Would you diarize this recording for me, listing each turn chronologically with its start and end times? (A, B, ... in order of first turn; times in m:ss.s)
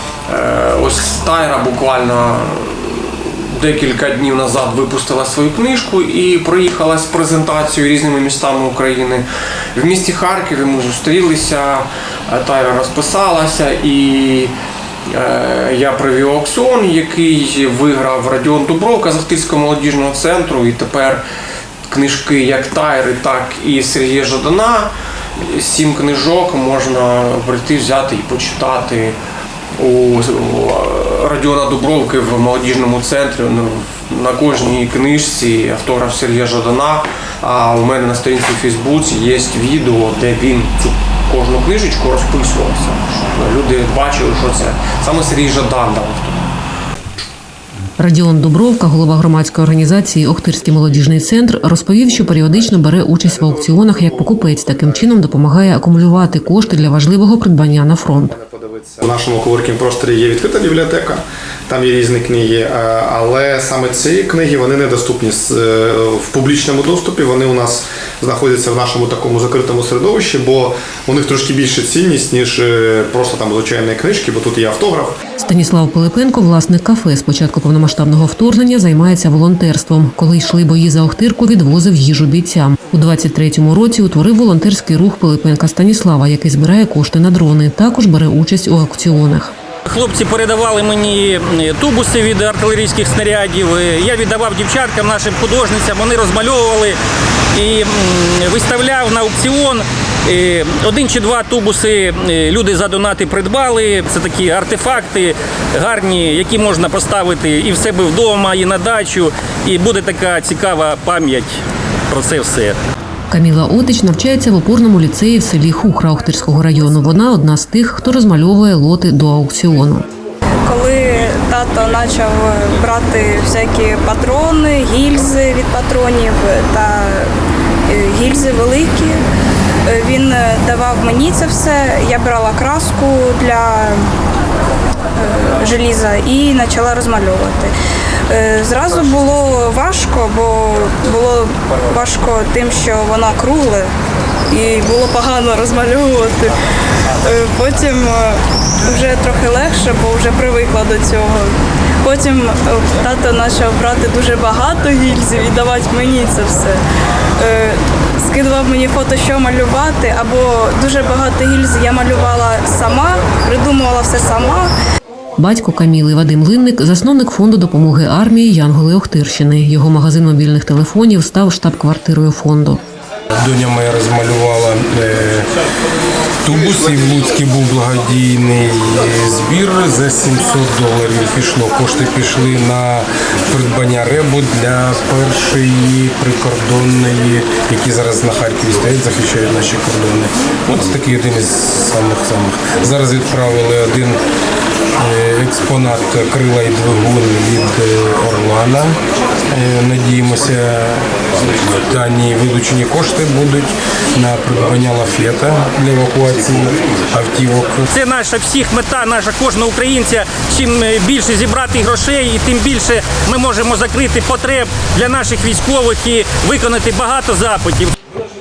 0:00.3-0:14.5 A
0:15.1-0:21.2 A
0:21.9-0:29.2 A
0:29.8-0:46.5 A
0:48.0-0:58.4 B
0:52.2-0:56.6 C
0:58.1-1:15.2 C
1:15.4-1:29.5 B
1:29.8-1:37.0 D
1:37.5-1:51.6 D
1:52.1-1:52.8 D
1:53.3-2:00.1 B
2:00.7-2:07.2 E
2:07.9-2:09.2 E
2:09.9-2:13.9 E
2:15.2-2:17.7 E
2:18.3-2:23.8 E
2:24.5-2:26.5 E
2:27.2-2:28.3 E
2:28.9-2:31.4 E
2:32.0-2:36.8 E
2:37.4-2:44.7 E
2:45.4-2:52.8 B
2:53.4-2:55.5 F
2:56.4-3:14.2 F
3:15.0-3:19.0 F
3:19.5-3:27.9 F
3:27.9-3:37.9 D